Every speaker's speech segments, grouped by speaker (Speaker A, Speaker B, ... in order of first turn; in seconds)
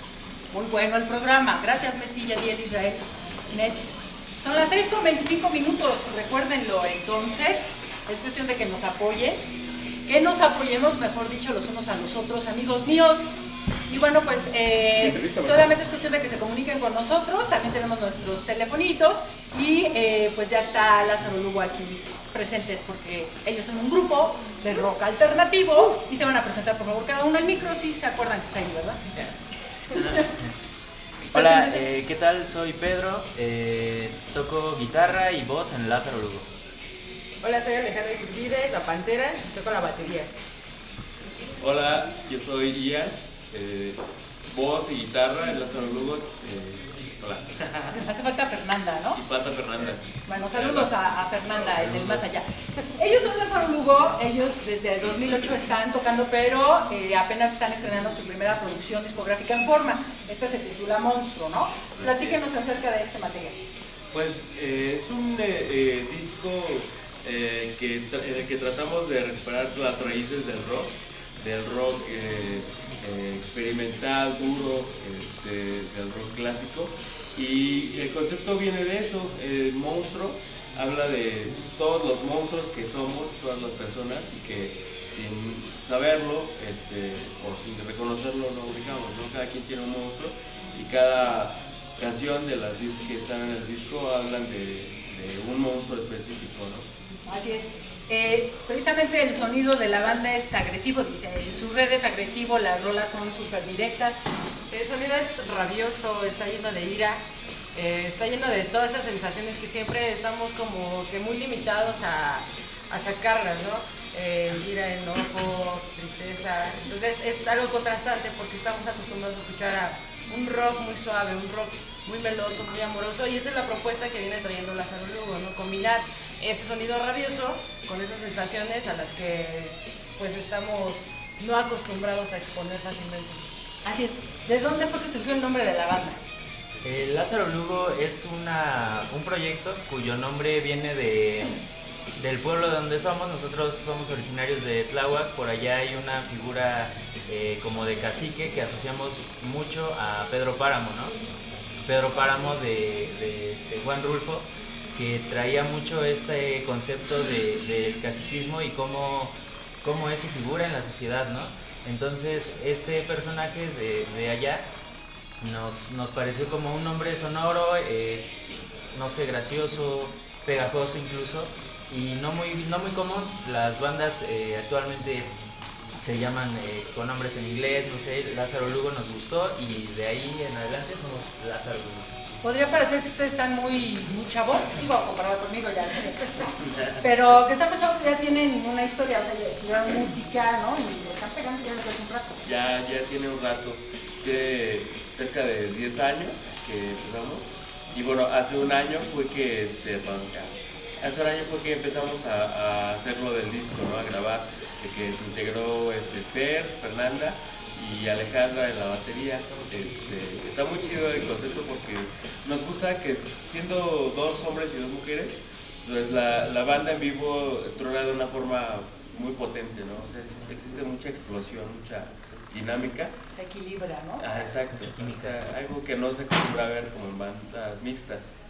Speaker A: 0.5-9.5, 10.1-13.3, 13.9-29.0, 29.9-30.4, 31.3-31.9, 48.0-49.2, 49.8-63.7, 97.3-104.2, 133.8-136.2, 182.4-192.4, 223.3-224.5
Speaker B: 31.3-36.5, 136.8-141.6, 142.2-151.2, 151.8-164.7, 165.4-168.3, 168.9-175.3, 176.0-182.4, 224.7-225.4
Speaker C: 37.4-40.3, 104.7-107.2, 107.7-133.4
Speaker D: 41.6-48.0, 49.1-51.0, 51.5-52.3, 62.0-62.4, 64.1-96.9, 192.4-223.2, 224.2-228.3